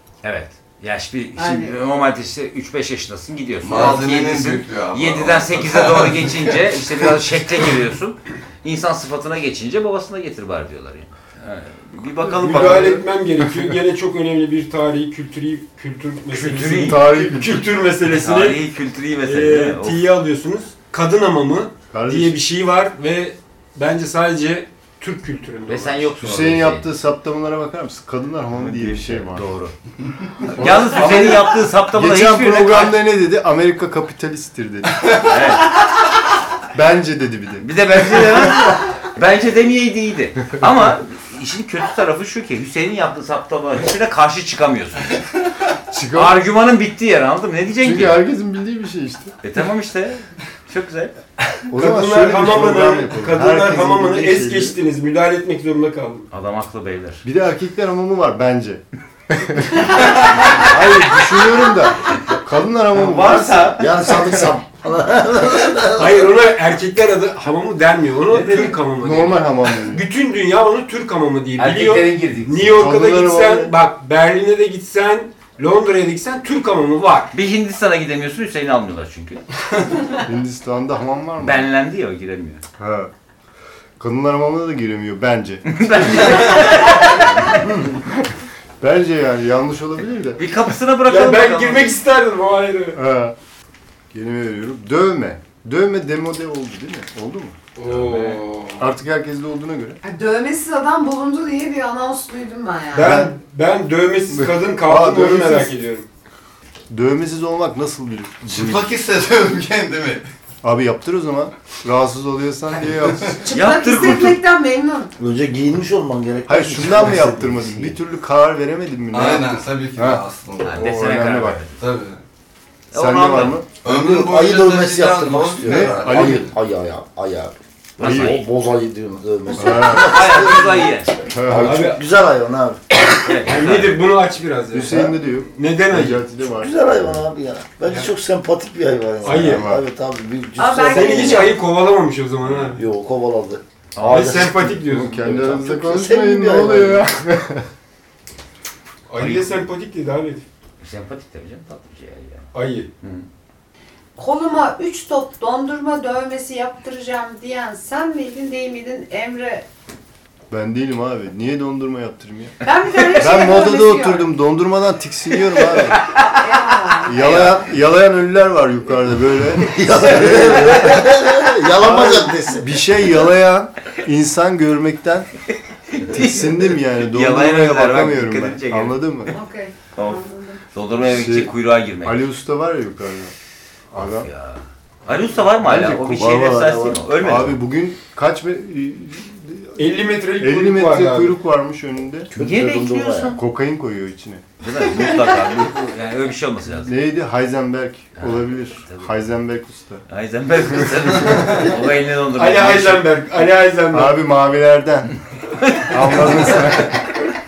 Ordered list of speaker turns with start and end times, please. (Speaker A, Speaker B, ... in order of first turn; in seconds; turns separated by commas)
Speaker A: 0.2-13.0, Speaker B: 1.4-1.8, Speaker C: 3.6-6.5, Speaker D: 12.2-13.1, Speaker E: 12.4-18.6, Speaker A: 16.3-17.1, Speaker D: 16.8-17.6, Speaker A: 18.1-20.0, Speaker E: 19.2-26.1, Speaker D: 21.9-22.4, Speaker A: 25.7-26.9, Speaker D: 26.2-29.4, Speaker A: 28.6-29.7, Speaker D: 30.5-35.1, Speaker A: 30.6-33.0, Speaker A: 35.2-35.7, Speaker D: 36.7-38.7, Speaker A: 37.6-45.2, Speaker D: 45.9-46.4, Speaker A: 46.1-48.2, Speaker D: 47.8-49.3, Speaker A: 49.4-51.1, Speaker D: 51.7-54.8, Speaker E: 51.7-56.3, Speaker A: 56.3-57.2, Speaker D: 57.2-64.5, Speaker A: 60.1-60.7, Speaker A: 62.9-63.9, Speaker F: 63.2-66.3, Speaker E: 66.0-77.3, Speaker D: 69.0-70.0, Speaker A: 71.6-72.9, Speaker D: 72.8-73.7, Speaker A: 77.3-79.4, Speaker D: 80.2-81.7, Speaker A: 81.4-82.6, Speaker D: 82.8-83.1, Speaker D: 84.0-86.9, Speaker A: 85.7-87.6, Speaker D: 87.4-88.3, Speaker D: 88.8-90.4, Speaker A: 90.4-92.0, Speaker E: 91.1-93.0, Speaker D: 92.9-93.3, Speaker D: 94.1-97.9, Speaker E: 97.8-98.8, Speaker A: 97.9-98.4, Speaker D: 98.8-100.0, Speaker B: 100.0-103.2, Speaker E: 102.9-106.0, Speaker D: 103.0-103.3, Speaker D: 104.3-105.7, Speaker D: 106.9-108.9, Speaker C: 108.5-110.2, Speaker D: 110.6-113.4, Speaker B: 113.4-115.1, Speaker A: 113.5-114.4, Speaker F: 115.2-118.0, Speaker D: 116.5-120.2, Speaker C: 119.1-120.8, Speaker A: 120.6-121.7, Speaker D: 120.8-121.6, Speaker C: 121.8-122.2, Speaker A: 122.9-123.6, Speaker D: 122.9-123.7, Speaker C: 123.8-126.5, Speaker F: 123.8-132.8, Speaker D: 125.6-126.5, Speaker A: 128.0-128.4, Speaker D: 128.0-128.3, Speaker D: 129.6-130.2, Speaker A: 129.7-131.3, Speaker D: 131.3-131.9, Speaker E: 131.5-132.0, Speaker A: 133.2-134.0, Speaker E: 133.3-136.2, Speaker D: 134.7-137.2, Speaker F: 136.4-141.5, Speaker E: 139.2-139.8, Speaker D: 139.2-139.8, Speaker B: 140.6-141.6, Speaker E: 140.8-142.8, Speaker F: 142.7-147.1, Speaker A: 143.9-144.4, Speaker E: 144.1-145.3, Speaker D: 144.7-147.7, Speaker E: 149.1-150.4, Speaker A: 149.2-149.6, Speaker A: 150.8-152.5, Speaker E: 152.5-152.9, Speaker B: 154.2-159.7, Speaker D: 160.5-162.6, Speaker B: 162.6-164.3, Speaker D: 163.1-166.1, Speaker B: 166.3-167.2, Speaker D: 167.1-175.3, Speaker A: 167.2-167.6, Speaker F: 169.6-172.8, Speaker A: 175.9-179.4, Speaker D: 176.1-179.3, Speaker B: 179.3-180.6, Speaker A: 179.9-180.2, Speaker A: 180.7-182.2, Speaker D: 181.0-183.3, Speaker D: 183.9-184.3, Speaker A: 184.0-187.6, Speaker D: 185.6-189.7, Speaker E: 189.8-191.4, Speaker D: 190.4-192.3, Speaker F: 192.3-193.4, Speaker A: 192.3-193.4, Speaker D: 193.3-194.4, Speaker A: 194.6-196.9, Speaker D: 196.7-200.0, Speaker A: 198.2-199.1, Speaker A: 200.1-203.1, Speaker E: 202.3-204.2, Speaker D: 203.9-205.2, Speaker A: 205.6-206.6, Speaker D: 205.8-207.2